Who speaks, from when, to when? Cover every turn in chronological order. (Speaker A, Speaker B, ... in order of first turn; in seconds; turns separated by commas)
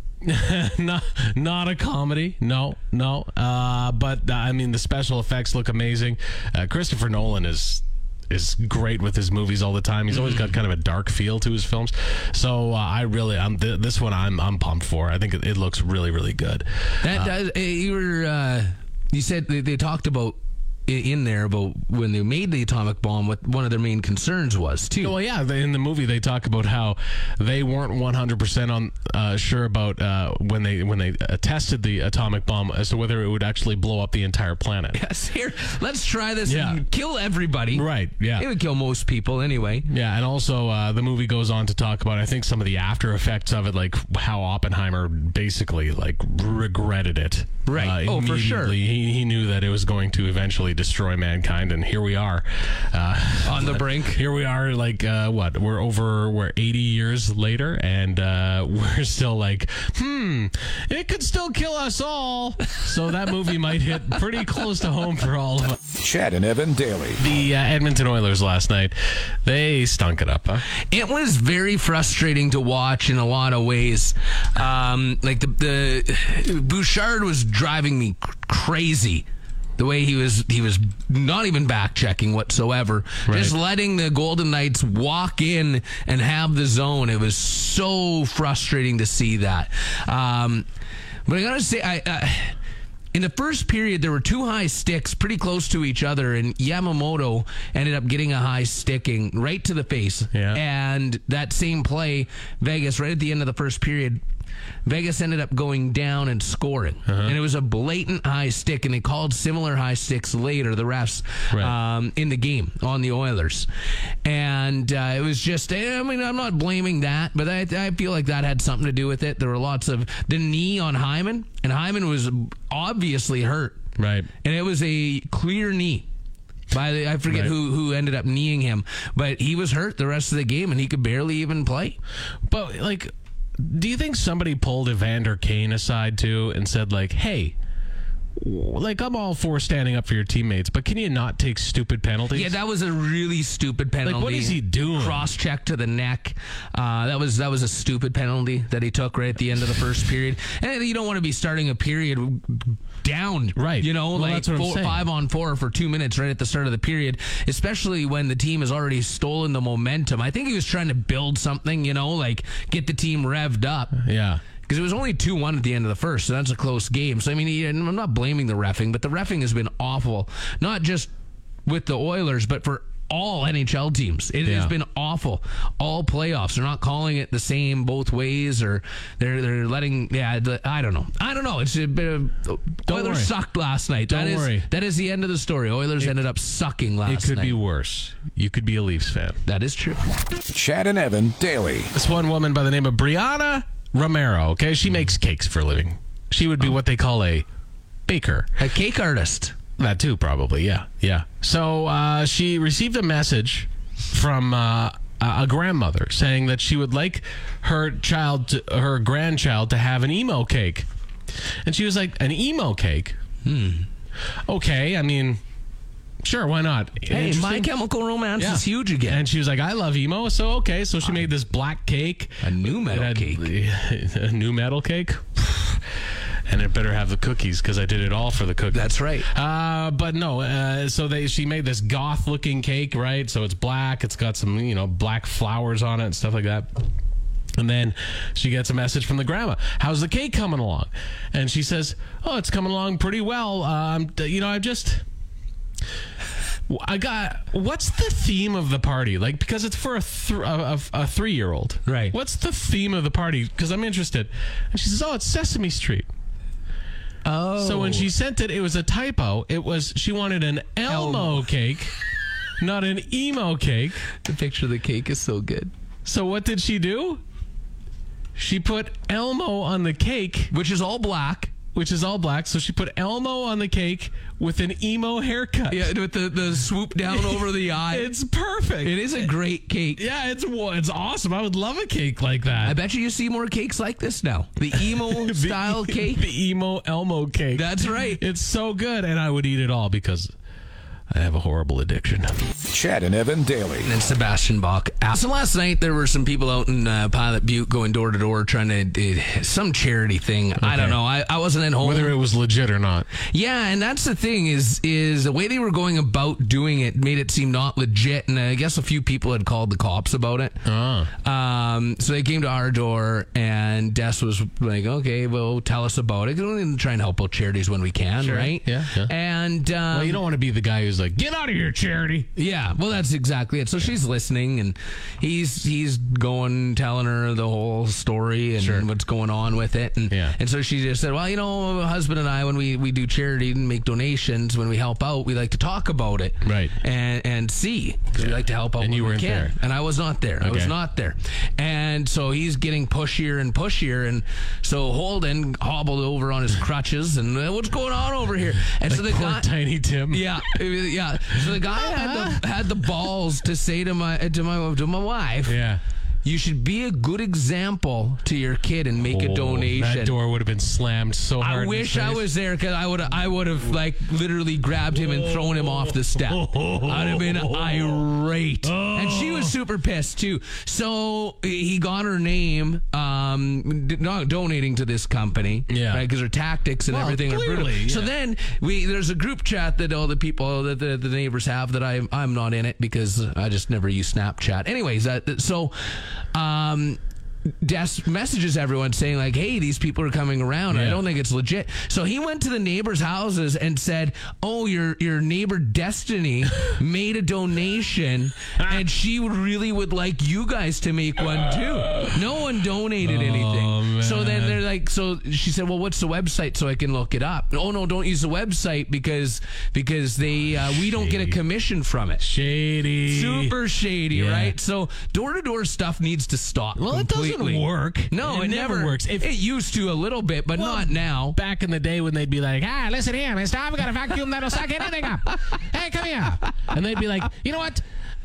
Speaker A: 0.2-17.3, Speaker B: 17.0-25.1, Speaker A: 25.0-35.0, Speaker B: 34.9-39.9, Speaker A: 36.5-36.8, Speaker A: 37.7-38.5, Speaker A: 39.9-65.8, Speaker B: 47.6-48.8, Speaker B: 53.4-54.2, Speaker C: 65.9-67.2, Speaker A: 67.2-70.6, Speaker B: 70.9-79.2, Speaker B: 79.8-90.7, Speaker A: 83.3-83.5, Speaker B: 91.3-92.5, Speaker B: 93.1-104.2, Speaker A: 100.3-100.6, Speaker B: 104.8-113.7, Speaker A: 107.1-107.3, Speaker B: 114.2-123.8, Speaker A: 124.0-124.3, Speaker B: 124.4-126.1, Speaker B: 126.7-132.0, Speaker A: 127.3-127.5, Speaker A: 132.5-137.5, Speaker A: 138.4-142.6, Speaker B: 142.3-164.0, Speaker A: 144.0-145.3, Speaker A: 153.6-155.1, Speaker A: 163.9-164.4, Speaker B: 164.6-171.1, Speaker B: 171.7-187.6, Speaker A: 174.4-174.7, Speaker A: 182.9-183.3, Speaker A: 184.1-184.7, Speaker A: 187.1-189.3, Speaker B: 189.4-190.0, Speaker C: 190.5-191.9, Speaker A: 191.9-197.4, Speaker A: 198.1-198.5, Speaker B: 198.6-199.6, Speaker A: 199.8-210.8, Speaker A: 211.7-213.2, Speaker B: 213.4-213.9, Speaker A: 214.5-215.4, Speaker A: 216.2-217.7, Speaker B: 217.1-219.2, Speaker A: 218.4-225.8, Speaker B: 222.4-223.5, Speaker A: 226.5-236.7, Speaker B: 228.7-229.3, Speaker A: 237.6-245.0, Speaker A: 246.7-256.1, Speaker B: 251.8-252.2, Speaker B: 257.2-258.1, Speaker A: 257.6-261.9, Speaker B: 260.9-261.4, Speaker A: 262.6-264.0, Speaker B: 264.2-265.7, Speaker A: 266.0-267.2, Speaker A: 268.4-270.5, Speaker B: 270.5-271.5, Speaker A: 271.7-275.9, Speaker B: 275.7-278.1, Speaker A: 277.1-279.3, Speaker B: 278.8-280.0, Speaker A: 279.9-282.8, Speaker B: 282.6-286.2, Speaker A: 284.7-290.3, Speaker B: 287.5-288.2, Speaker A: 291.1-292.4, Speaker C: 292.7-293.9, Speaker B: 293.8-302.1, Speaker A: 300.6-301.0, Speaker A: 301.8-303.1, Speaker B: 303.3-310.6, Speaker A: 310.6-311.1, Speaker B: 311.2-320.2, Speaker A: 318.2-319.1, Speaker A: 319.9-322.3, Speaker B: 322.3-349.5, Speaker A: 328.6-328.9, Speaker A: 330.1-330.4, Speaker A: 336.4-336.8, Speaker A: 338.1-339.5, Speaker A: 340.4-340.7, Speaker A: 348.9-350.6, Speaker B: 350.1-355.6, Speaker A: 351.3-352.4, Speaker A: 355.4-355.8, Speaker B: 356.2-360.1, Speaker A: 359.0-362.3, Speaker B: 361.4-387.0, Speaker A: 366.3-368.0, Speaker A: 368.6-369.5, Speaker A: 375.7-376.0, Speaker A: 376.9-378.1, Speaker B: 387.6-412.2, Speaker A: 390.7-391.0, Speaker A: 403.0-404.6, Speaker A: 410.7-411.4, Speaker A: 412.2-413.6, Speaker B: 413.1-421.4, Speaker A: 414.1-414.6, Speaker A: 416.8-419.3, Speaker A: 420.5-427.8